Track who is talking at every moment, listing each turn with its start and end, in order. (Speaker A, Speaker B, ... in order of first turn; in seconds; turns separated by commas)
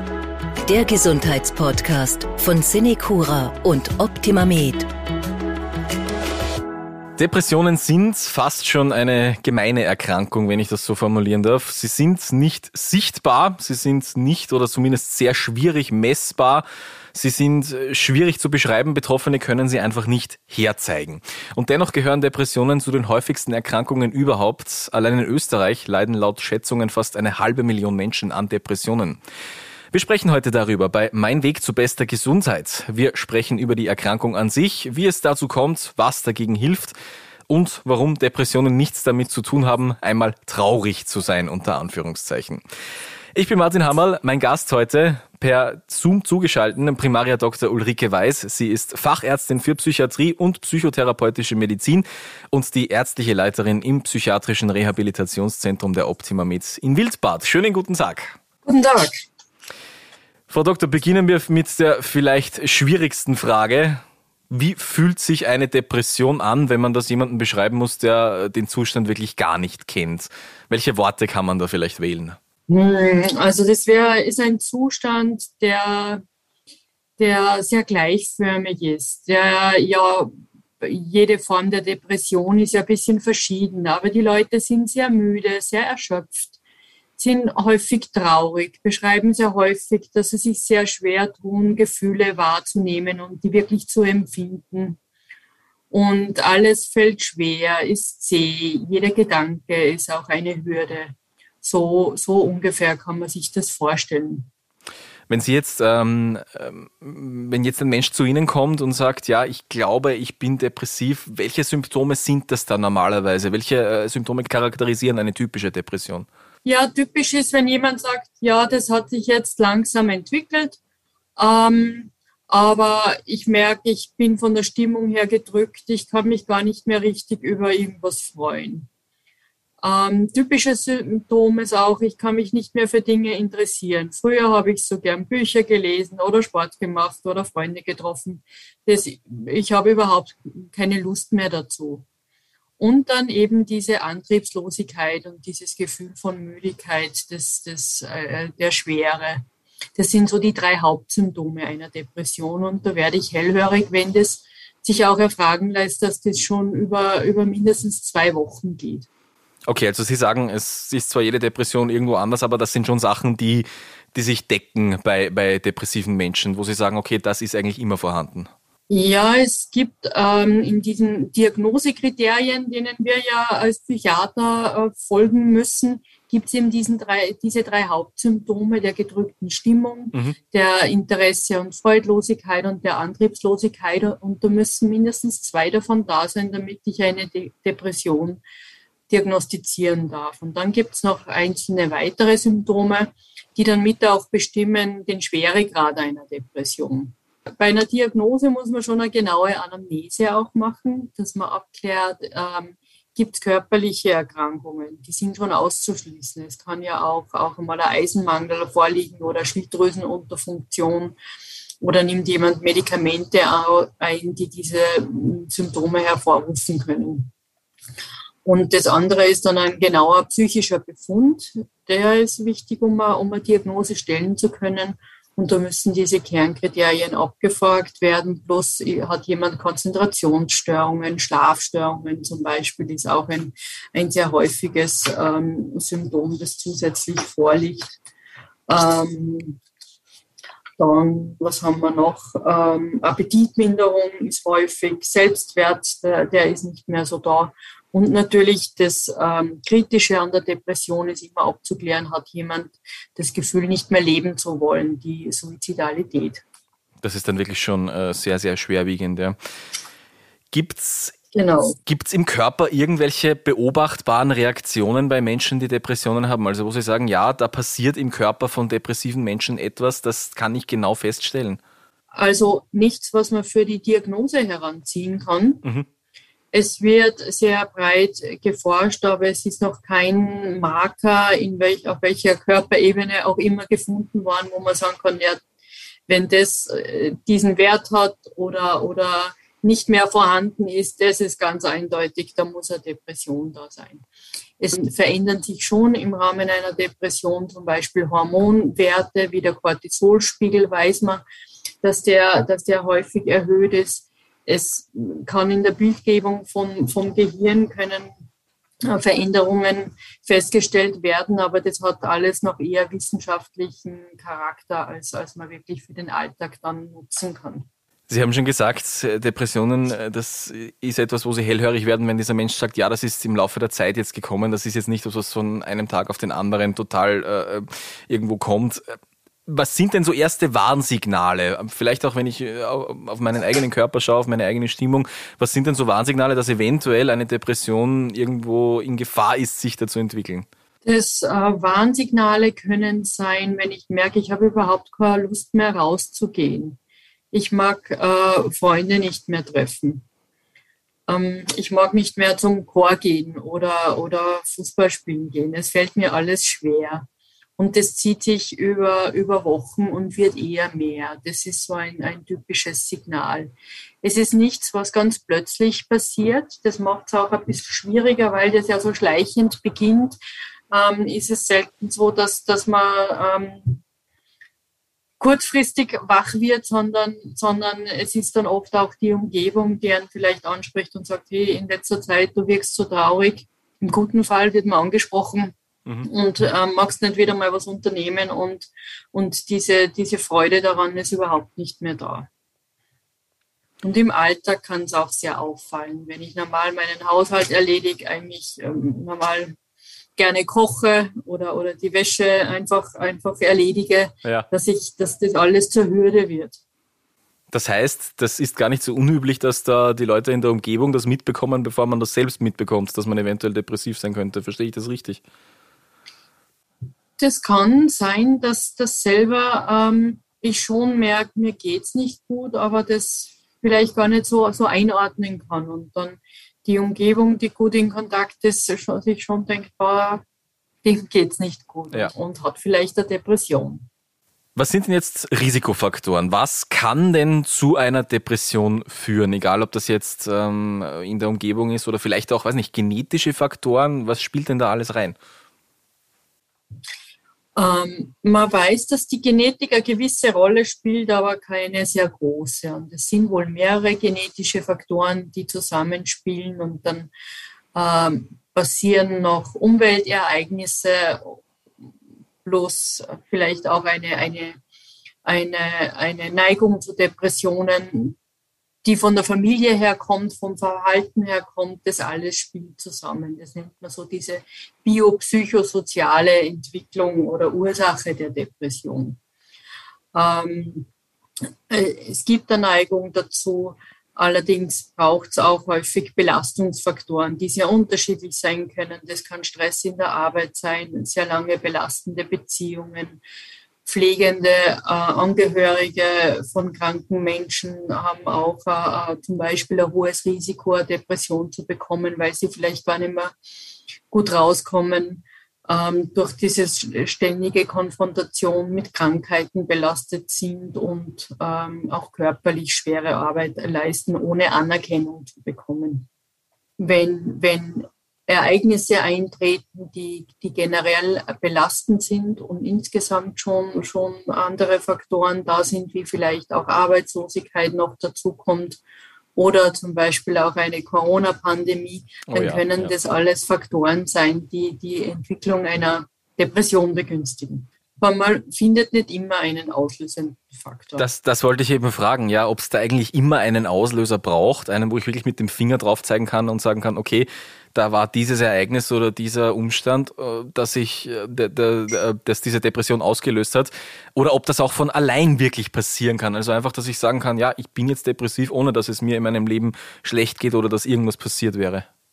Speaker A: 0.7-4.9, Speaker B: 7.2-29.2, Speaker B: 29.9-37.0, Speaker B: 37.5-42.6, Speaker B: 43.4-58.4, Speaker C: 58.7-59.3, Speaker B: 60.5-72.4, Speaker C: 72.7-76.2, Speaker C: 77.2-86.6, Speaker C: 87.2-95.0, Speaker C: 95.9-104.5, Speaker B: 105.3-116.3, Speaker C: 116.6-120.8, Speaker C: 121.4-128.9, Speaker C: 129.8-142.1, Speaker C: 142.8-159.1, Speaker B: 159.7-168.5, Speaker C: 168.9-188.4, Speaker C: 189.1-211.2, Speaker C: 211.8-217.3, Speaker C: 218.4-238.0, Speaker C: 238.7-239.6, Speaker C: 240.8-256.4, Speaker B: 257.0-259.4, Speaker B: 260.5-261.2, Speaker C: 261.3-261.8, Speaker B: 261.8-271.6, Speaker C: 272.1-275.6, Speaker C: 276.5-285.4, Speaker C: 286.1-294.1, Speaker C: 294.6-301.2, Speaker C: 301.8-308.1, Speaker C: 308.9-317.7, Speaker B: 318.1-340.5, Speaker C: 340.9-346.8, Speaker C: 347.3-350.1, Speaker C: 351.1-357.1, Speaker C: 357.6-370.2, Speaker C: 370.7-373.8, Speaker C: 375.2-392.3, Speaker C: 393.8-399.6, Speaker C: 400.2-406.6, Speaker B: 407.5-415.2, Speaker C: 417.2-430.2, Speaker C: 430.8-433.9, Speaker B: 434.6-445.2, Speaker C: 447.6-457.1, Speaker C: 457.7-461.4, Speaker C: 462.4-464.6, Speaker C: 465.2-468.2, Speaker C: 468.8-479.2, Speaker C: 480.1-480.9, Speaker C: 481.7-493.2, Speaker C: 493.9-503.3, Speaker C: 504.1-516.1, Speaker C: 516.8-528.8, Speaker C: 529.4-541.1, Speaker B: 532.3-532.9, Speaker B: 541.0-561.9